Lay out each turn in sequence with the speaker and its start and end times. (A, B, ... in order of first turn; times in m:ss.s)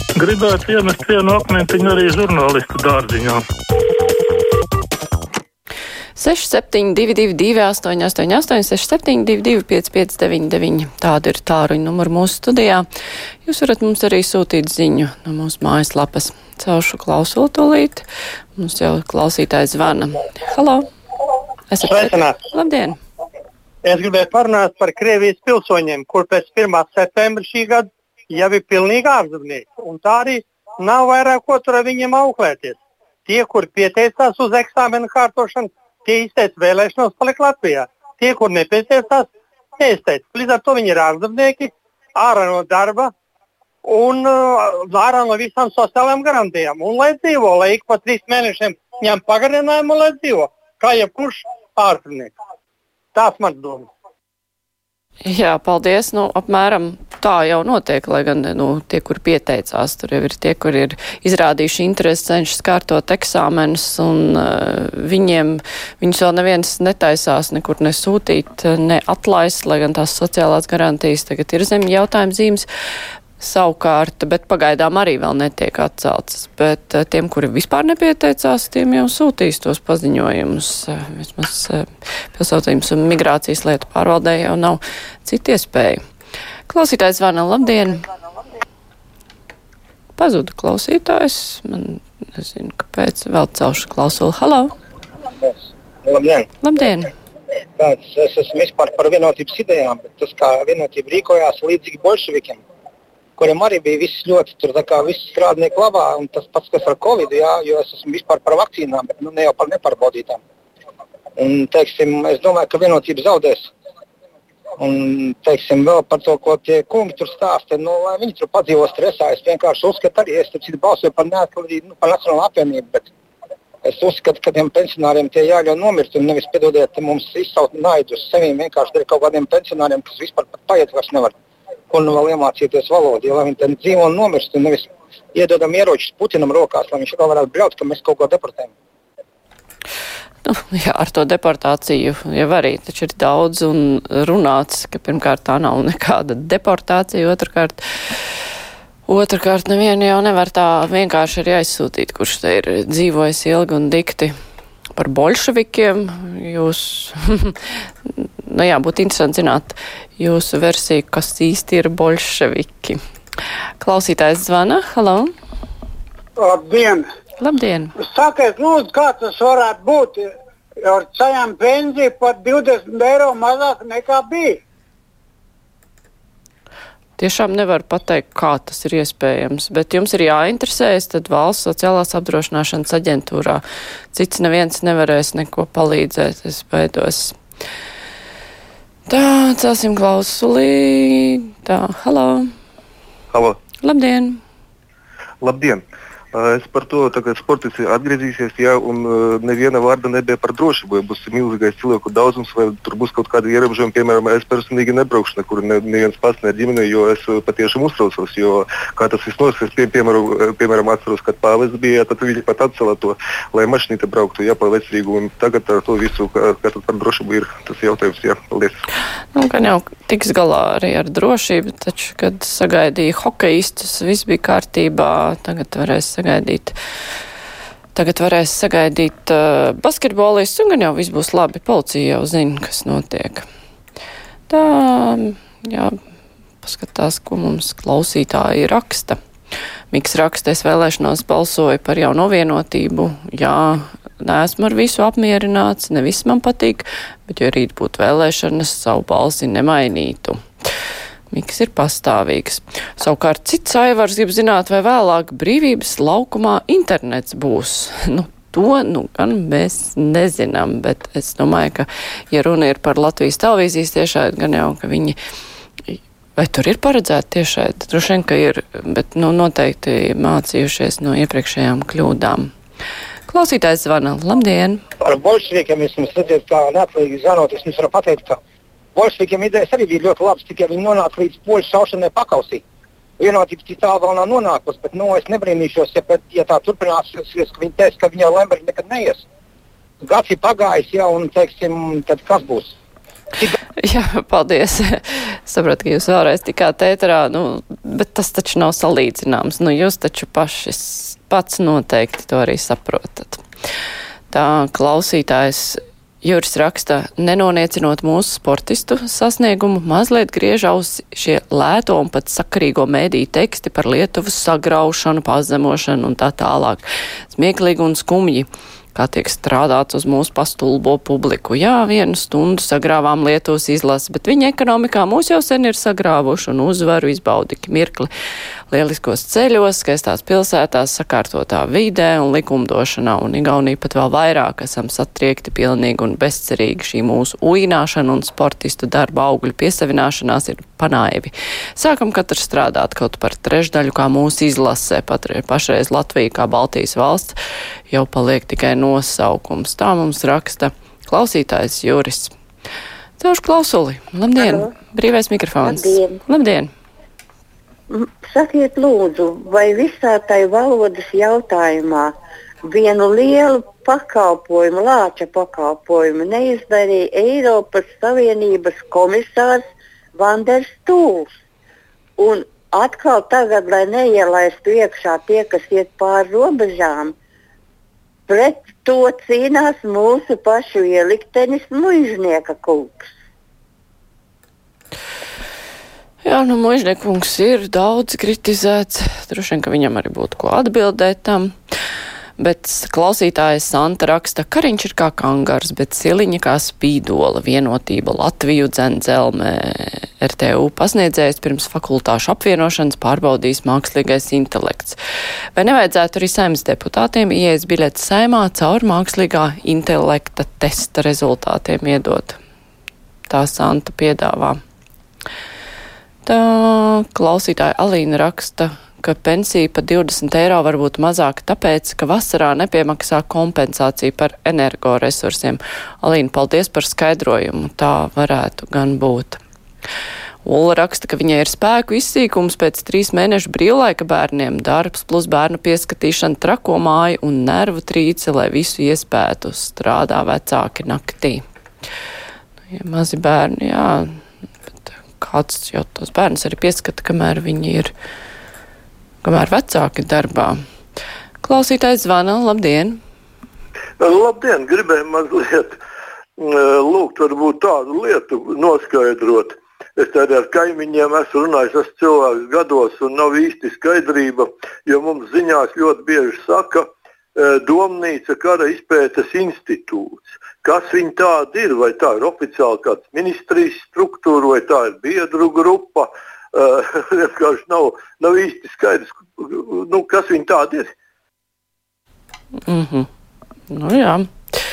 0:00.2-0:03.4 A
0:06.2-0:12.8 B
0:13.4-0:18.0 B
0:18.6-0:20.9 B
0:21.7-0:23.0 B
0:21.8-0:22.4 C
0:23.8-0:39.3 C
0:39.8-0:43.1 C
0:43.8-0:52.3 C
0:53.1-0:53.9 C
0:55.2-1:12.7 B
1:13.4-1:21.8 B
1:22.3-1:26.0 B
1:26.7-1:28.0 B
1:30.2-1:34.7 B
1:35.4-1:36.5 D
1:36.6-1:37.1 B
1:37.8-1:42.6 D
1:43.4-1:50.4 D
1:51.4-1:53.7 D
1:54.8-2:03.0 D
2:03.8-2:11.3 D
2:11.9-2:18.7 D
2:20.4-2:27.8 B
2:29.0-2:34.3 B
2:35.0-2:37.5 B
2:38.1-2:43.0 B
2:43.8-2:45.3 B
2:46.4-2:47.1 E
2:47.4-2:47.9 B
2:48.0-2:54.6 E
2:57.2-3:03.6 B
3:04.1-3:07.4 B
3:09.1-3:12.5 B
3:13.3-3:13.6 F
3:13.8-3:14.4 B
3:15.4-3:38.7 F
3:39.3-3:46.7 B
3:47.9-3:53.4 B
3:54.5-3:55.9 B
3:56.6-3:59.2 B
3:59.9-4:10.4 B
4:11.3-4:25.2 B
4:25.9-4:32.5 B
4:33.3-4:34.8 B
4:35.0-4:38.4 D
4:38.9-4:42.6 D
4:43.2-4:49.2 D
4:50.0-4:52.7 D
4:53.8-5:03.4 B
5:04.3-5:28.1 B
5:28.7-5:47.4 B
5:47.9-5:52.3 B
5:53.2-5:56.7 B
5:54.4-5:54.7 G
5:55.6-5:56.2 G
5:57.9-6:09.6 G
6:10.1-6:11.3 G
6:12.2-6:17.1 G
6:18.3-6:23.1 G
6:26.2-6:31.5 B
6:32.4-6:45.0 B
6:45.6-6:52.4 B
6:53.3-6:54.6 B
6:56.2-7:09.4 B
7:10.4-7:21.4 B
7:22.7-7:24.1 B
7:24.9-7:27.9 B
7:29.2-7:30.6 B
7:31.4-7:33.0 B
7:34.0-7:35.8 H
7:36.4-8:00.9 H
8:02.7-8:03.1 B
8:03.7-8:04.3 B